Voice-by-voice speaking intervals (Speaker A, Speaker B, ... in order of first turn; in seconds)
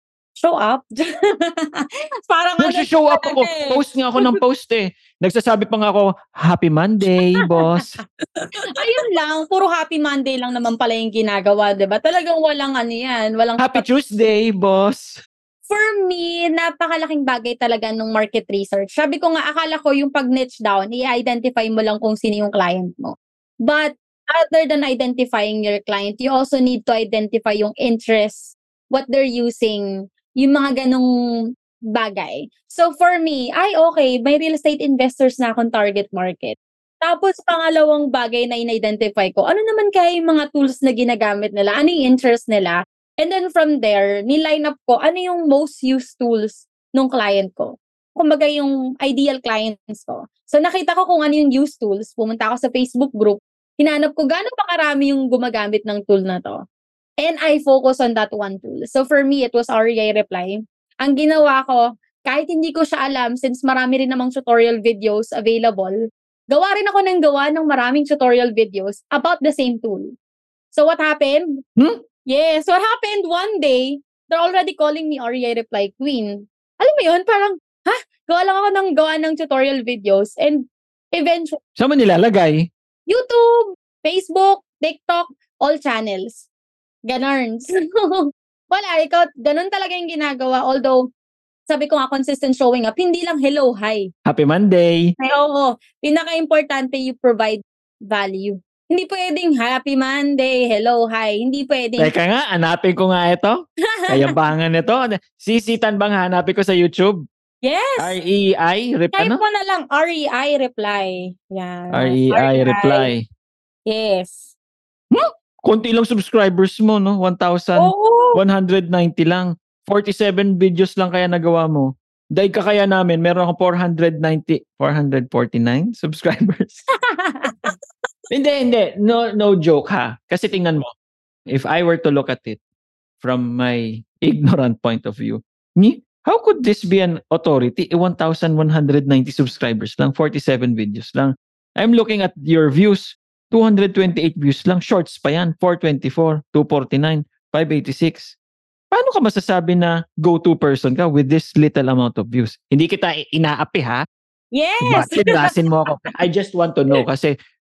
Speaker A: 0.4-4.3, 8.7-13.8, 15.7-29.8, 30.4-31.1, 31.9-56.5, 57.2-65.9, 66.5-70.1, 70.7-71.4, 72.3-81.6, 83.1-86.5, 87.1-91.0, 91.7-94.1, 95.2-102.1, 107.6-108.1, 109.1-113.1, 113.9-114.5, 117.8-118.4, 127.1-127.7, 154.5-155.6
Speaker B: 2.6-8.0, 13.6-15.2, 81.8-82.7, 94.2-95.1, 102.0-103.6, 104.1-107.2, 108.0-109.4, 111.9-113.2, 115.1-126.8, 128.3-130.9, 131.5-132.6, 133.2-148.3, 148.9-154.0, 154.8-157.3